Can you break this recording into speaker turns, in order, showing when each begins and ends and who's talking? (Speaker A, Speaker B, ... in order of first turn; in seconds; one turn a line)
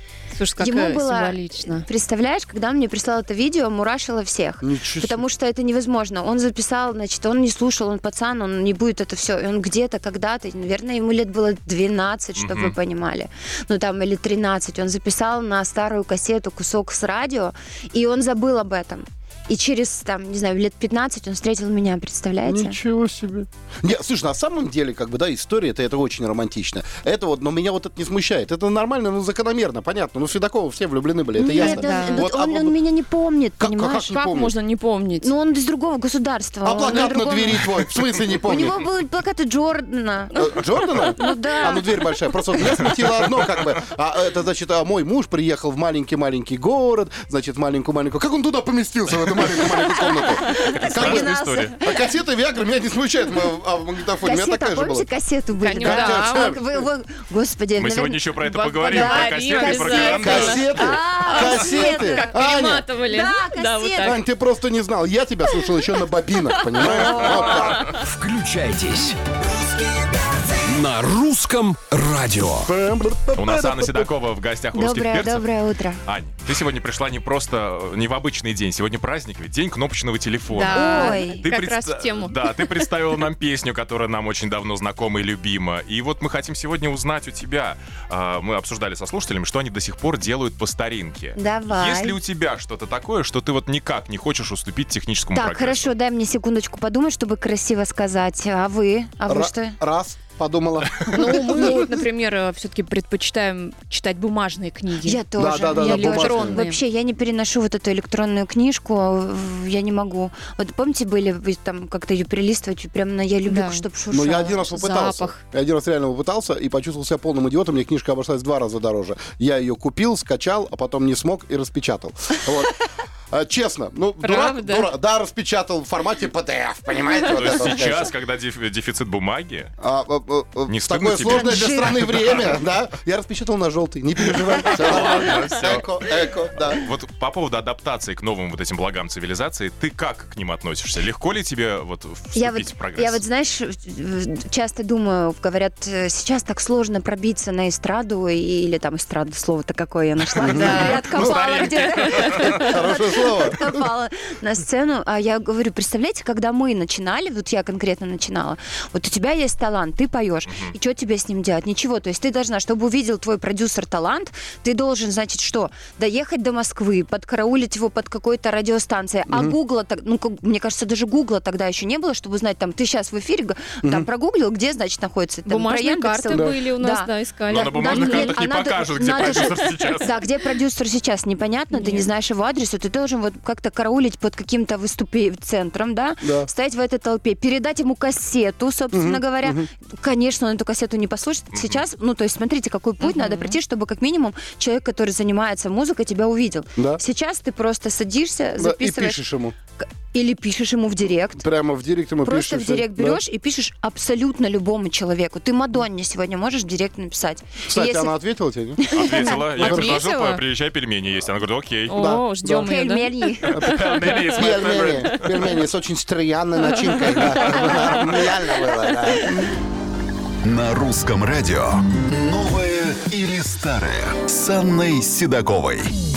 Speaker A: 0.3-1.9
Speaker B: 0.6-22.8
Speaker C: 4.6-5.2
Speaker D: 12.3-12.7
Speaker C: 22.4-32.8
Speaker B: 31.4-34.1
Speaker A: 31.6-32.2
Speaker C: 33.6-34.5
Speaker A: 34.1-35.3
Speaker B: 35.2-42.9
Speaker C: 36.6-38.8
Speaker C: 40.3-55.1
Speaker A: 41.3-41.6
Speaker B: 50.0-52.0
Speaker D: 50.5-51.7
Speaker B: 54.2-58.3
Speaker A: 55.6-56.5
Speaker C: 55.8-56.8
Speaker D: 57.8-60.7
Speaker A: 58.5-64.2
Speaker B: 58.9-62.5
Speaker C: 60.1-62.9
Speaker B: 63.0-64.2
Speaker C: 64.0-67.9
Speaker A: 66.6-68.0
Speaker B: 66.8-67.5
Speaker D: 67.2-67.9
Speaker E: 68.0-69.2
Speaker E: 70.7-72.7
Speaker C: 72.7-74.1
Speaker D: 73.3-75.5
Speaker B: 74.7-76.0
Speaker D: 76.0-95.9
Speaker A: 80.5-82.8
Speaker B: 80.7-81.5
Speaker B: 91.3-92.2
Speaker B: 95.3-99.8
Speaker C: 99.3-101.9
Speaker A: 101.1-106.8
Speaker B: 101.3-101.9
Speaker B: 105.0-114.8
Speaker C: 105.4-106.6
Speaker A: 113.4-113.8
Speaker C: 114.1-128.1
Speaker A: 114.7-115.4
Speaker A: 124.2-124.9
Speaker D: 127.3-129.7
Speaker C: 129.8-136.8
Speaker D: 130.7-132.5
Speaker B: 131.2-132.2
Speaker D: 134.4-143.2
Speaker B: 142.3-199.2
Speaker A: 150.4-151.1
Speaker C: 150.4-151.4
Speaker D: 150.7-152.8
Speaker C: 152.2-153.7
Speaker D: 160.5-160.7
Speaker C: 169.3-169.6
Speaker C: 173.8-174.1
Speaker A: 175.4-178.4
Speaker C: 176.3-176.6
Speaker D: 177.5-180.1
Speaker A: 181.7-182.1
Speaker C: 186.2-186.5
Speaker C: 188.9-189.7
Speaker D: 191.5-191.8
Speaker A: 193.0-193.6
Speaker C: 196.8-197.0
Speaker C: 198.6-199.5
Speaker B: 199.8-201.4
Speaker C: 201.4-203.2
Speaker B: 202.2-208.1
Speaker C: 207.7-208.8
Speaker B: 208.8-209.6
Speaker D: 208.9-212.1
Speaker C: 209.5-210.0
Speaker A: 209.6-210.4
Speaker A: 211.9-213.3
Speaker C: 211.9-212.7
Speaker B: 212.6-213.7
Speaker C: 213.4-219.6
Speaker D: 213.5-215.6
Speaker A: 216.6-219.4
Speaker D: 217.1-218.1
Speaker F: 220.4-225.9